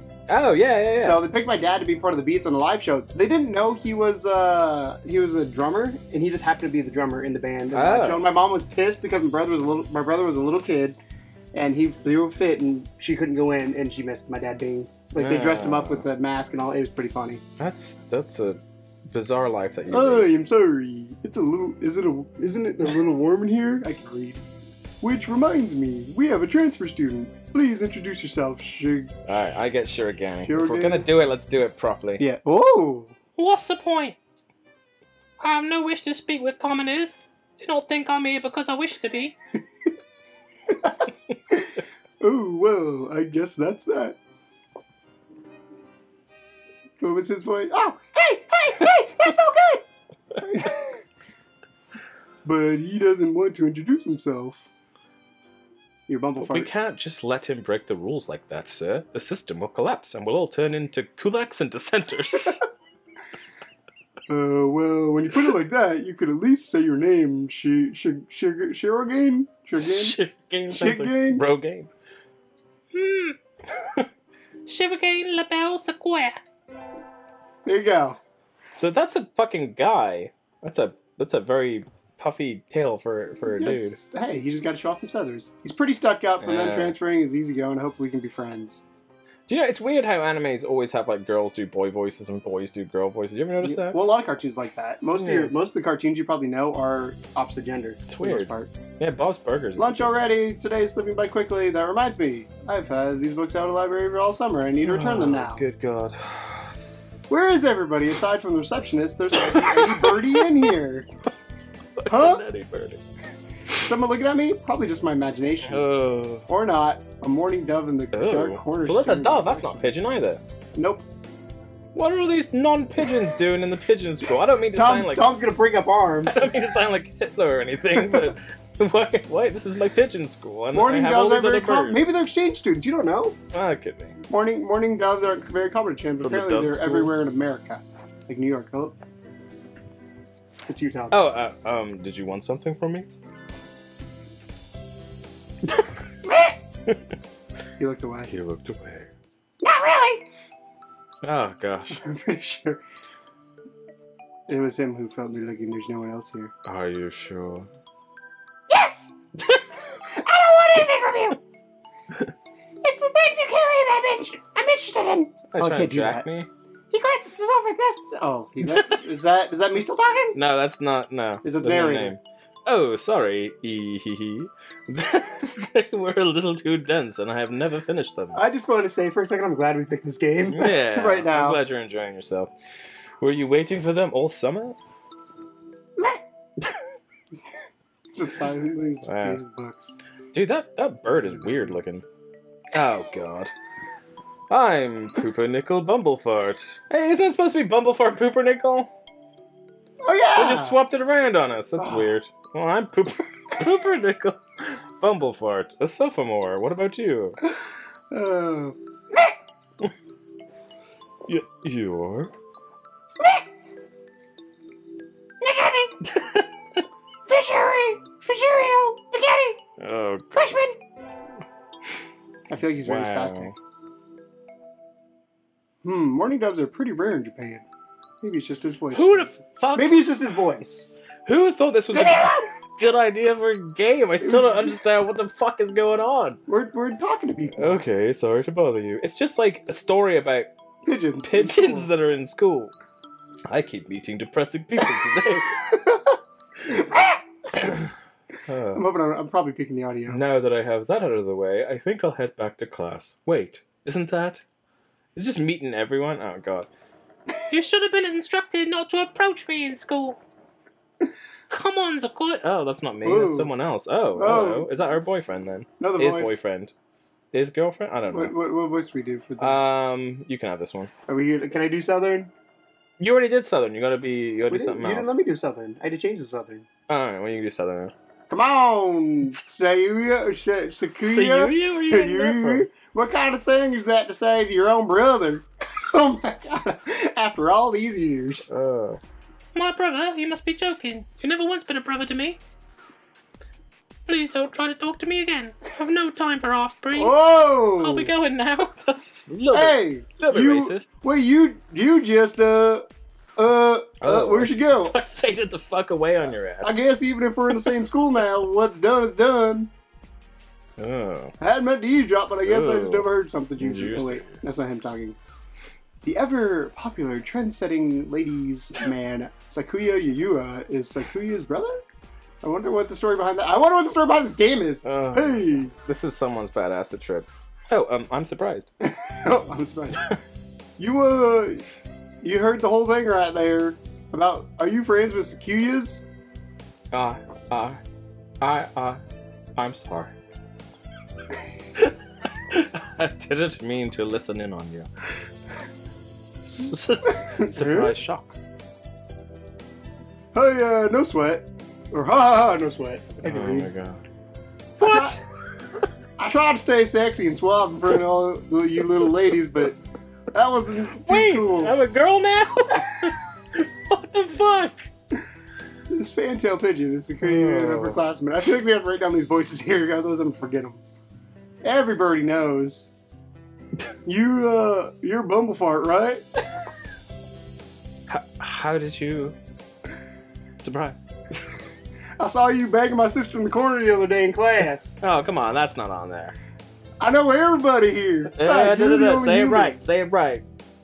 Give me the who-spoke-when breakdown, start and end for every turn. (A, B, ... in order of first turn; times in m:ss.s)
0:00.3-0:01.2 A
0:01.0-0:11.0 B
0:07.7-0:08.2 A
0:11.5-0:17.4 B
0:15.2-0:16.1 A
0:17.6-0:20.3 A
0:19.9-0:24.4 B
0:25.0-0:29.1 B
0:29.2-0:32.2 A
0:30.4-0:31.1 B
0:32.2-0:33.2 B
0:33.4-0:34.2 C
0:35.4-0:39.3 C
0:40.7-0:44.2 B
0:47.0-0:49.8 B
0:50.4-0:51.0 B
0:52.4-0:54.7 B
0:56.1-0:56.7 B
0:56.4-1:02.6 A
1:04.3-1:10.1 B
1:09.8-1:11.9 A
1:10.7-1:11.4 B
1:12.9-1:13.4 C
1:13.7-1:14.1 A
1:14.6-1:16.4 C
1:17.6-1:18.2 B
1:18.8-1:24.0 A
1:23.5-1:28.8 B
1:26.4-1:26.9 A
1:29.5-1:34.0 A
1:33.6-1:38.7 B
1:35.1-1:35.5 A
1:38.1-1:40.1 A
1:39.8-1:45.6 B
1:44.8-1:46.7 A
1:47.3-1:51.1 B
1:49.5-1:50.2 A
1:52.0-1:53.0 A
1:52.1-1:52.4 B
1:53.7-1:55.8 B
1:55.6-1:56.4 A
1:56.4-1:59.9 B
1:58.1-2:00.4 A
2:00.8-2:01.0 B
2:01.9-2:05.3 A
2:04.7-2:06.5 B
2:06.2-2:12.0 A
2:10.7-2:13.4 B
2:13.5-2:14.2 A
2:14.3-2:19.0 B
2:16.2-2:17.1 A
2:20.7-2:21.2 B
2:21.1-2:23.1 A
2:26.2-2:26.5 B
2:27.8-2:28.3 B
2:28.3-2:29.1 A
2:29.6-2:30.2 B
2:31.2-2:32.0 A
2:31.9-2:32.8 B
2:34.5-2:36.5 B
2:36.6-2:37.7 A
2:38.7-2:39.1 B
2:40.1-2:41.4 B
2:42.8-2:46.3 B
2:45.5-2:46.5 A
2:46.9-2:50.4 B
2:48.7-2:49.0 A
2:50.3-2:58.4 A
2:51.4-2:52.1 B
2:58.3-3:01.6 B
3:00.5-3:02.5 A
3:03.2-3:04.8 A
3:08.1-3:10.0 B
3:09.0-3:09.4 A
3:10.3-3:12.0 A
3:11.2-3:11.7 B
3:12.7-3:13.5 A
3:14.5-3:18.9 A
3:20.0-3:20.8 B
3:20.3-3:27.4 A
3:21.8-3:22.1 B
3:28.1-3:28.8 B
3:31.2-3:32.3 A
3:33.2-3:33.4 B
3:35.4-3:35.9 B
3:36.0-3:36.8 A
3:37.3-3:39.6 B
3:39.8-3:40.5 A
3:40.3-3:40.8 B
3:42.5-3:43.5 B
3:42.7-3:43.6 A
3:45.8-3:47.6 B
3:48.2-3:51.0 B
3:48.9-3:50.0 A
3:51.2-3:56.4 A
3:51.9-3:52.5 B
3:54.2-3:54.8 B
3:56.5-3:57.8 B
3:57.6-4:00.5 A
4:00.8-4:01.9 B
4:01.2-4:02.7 A
4:03.5-4:05.6 A
4:05.7-4:07.2 B
4:07.5-4:07.9 A
4:08.5-4:08.8 A
4:08.7-4:10.2 B
4:10.1-4:14.4 A
4:15.2-4:16.7 A
4:17.5-4:20.2 C
4:21.5-4:22.4 C
4:22.4-4:26.7 A
4:23.0-4:23.5 B
4:24.2-4:24.7 B
4:25.8-4:26.4 B
4:27.3-4:28.3 A
4:28.1-4:29.6 B
4:29.4-4:30.9 A
4:31.1-4:32.3 B
4:33.0-4:35.2 A
4:34.5-4:36.7 B
4:36.9-4:37.9 A
4:38.3-4:48.5 B
4:40.9-4:42.7 A
4:48.5-4:49.0 A
4:49.5-4:52.4 C
4:54.1-4:57.2 C
4:56.9-4:58.1 B
4:57.7-4:58.7 C
4:58.8-5:00.9 A
4:59.5-5:05.0 B
5:04.0-5:06.8 A
5:06.6-5:09.7 B
5:10.8-5:11.3 A
5:11.4-5:15.2 B
5:12.4-5:14.4 A
5:16.0-5:21.8 B
5:22.4-5:25.7 B
5:24.8-5:28.7 A
5:28.8-5:30.1 B
5:30.8-5:31.6 B
5:32.2-5:36.0 B
5:36.9-5:37.8 A
5:38.4-5:39.0 A
5:39.6-5:40.1 A
5:41.7-5:44.9 A
5:46.4-5:48.3 A
5:47.2-5:47.9 B
5:50.3-5:53.7 B
5:53.2-5:54.1 A
5:54.8-5:55.2 A
5:54.8-5:55.2 B
5:56.2-5:59.8 B
6:00.3-6:01.7 B
6:01.0-6:04.9 A
6:05.9-6:10.8 B
6:07.2-6:08.0 A
6:11.6-6:12.9 B
6:14.0-6:16.2 B
6:18.1-6:19.4 A
6:20.6-6:21.1 A
6:22.2-6:25.0 B
6:25.0-6:26.3 A
6:27.0-6:29.8 B
6:28.3-6:30.4 A